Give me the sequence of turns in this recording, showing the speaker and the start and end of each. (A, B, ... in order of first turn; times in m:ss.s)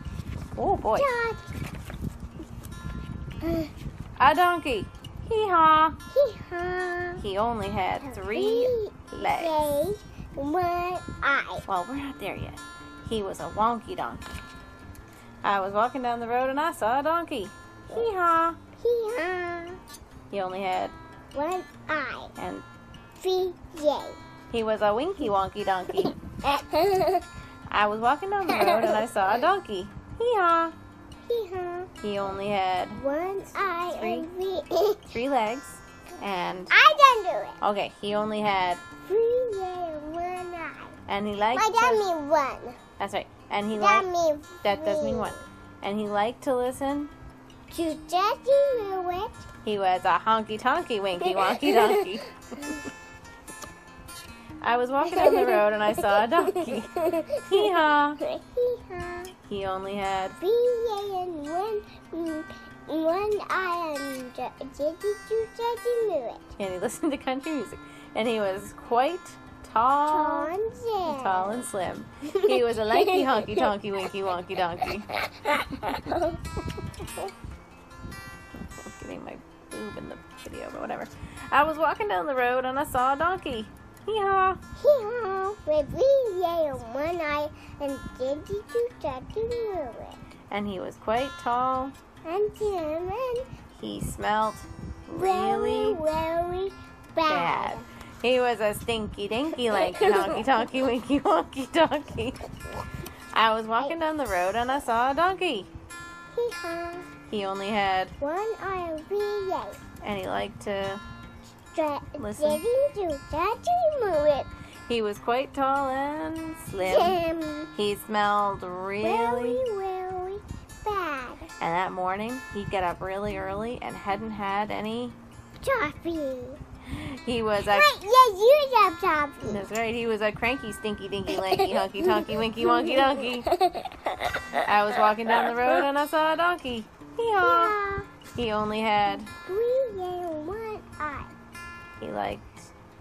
0:00.5-0:01.1 A
0:00.9-0:01.5 B
0:03.4-0:03.7 B
0:04.2-0:06.0 A
0:06.1-0:07.2 B
0:07.2-0:09.6 A
0:08.0-0:11.6 B
0:11.6-0:14.2 A
0:15.4-0:18.6 A
0:18.8-0:19.8 B
0:20.3-0:20.9 A
0:21.3-0:22.3 B
0:22.4-0:22.6 A
0:23.2-0:24.2 B
0:24.5-0:26.2 A
0:26.4-0:27.2 B
0:27.7-0:30.7 A
0:28.5-0:29.0 B
0:31.2-0:31.9 B
0:32.0-0:33.0 A
0:32.9-0:35.1 B
0:33.8-0:34.3 A
0:35.1-0:36.7 A
0:36.7-0:37.6 B
0:37.6-0:38.8 A
0:39.0-0:41.0 B
0:41.1-0:42.0 A
0:41.5-0:42.8 B
0:43.0-0:44.1 A
0:43.7-0:45.4 B
0:44.6-0:47.1 A
0:47.7-0:49.5 B
0:49.6-0:52.7 A
0:51.2-0:52.8 B
0:54.6-0:58.2 A
0:55.0-0:59.3 B
0:59.5-1:00.4 A
1:00.4-1:06.6 B
1:06.6-1:10.5 A
1:10.1-1:11.7 B
1:11.0-1:15.1 A
1:12.5-1:13.7 B
1:15.1-1:16.4 B
1:18.7-1:24.6 A
1:24.8-1:30.2 B
1:30.5-1:31.9 A
1:32.2-1:33.5 B
1:33.7-1:36.0 A
1:35.1-1:37.8 B
1:37.2-1:42.5 A
1:39.7-1:40.5 B
1:43.3-1:45.7 A
1:46.3-1:47.1 B
1:47.3-1:48.2 A
1:48.2-1:49.8 B
1:50.0-1:51.0 A
1:51.7-1:54.5 B
1:52.2-1:52.6 A
1:54.9-1:57.2 A
1:56.8-1:57.7 B
1:57.7-1:59.6 A
1:59.0-2:01.5 B
2:01.6-2:05.2 A
2:05.6-2:06.6 B
2:06.9-2:07.9 A
2:07.6-2:09.6 B
2:09.4-2:13.5 A
2:11.3-2:14.6 B
2:14.6-2:17.7 A
2:15.4-2:15.8 B
2:17.4-2:18.1 B
2:18.3-2:19.3 A
2:19.4-2:21.3 B
2:22.0-2:22.7 A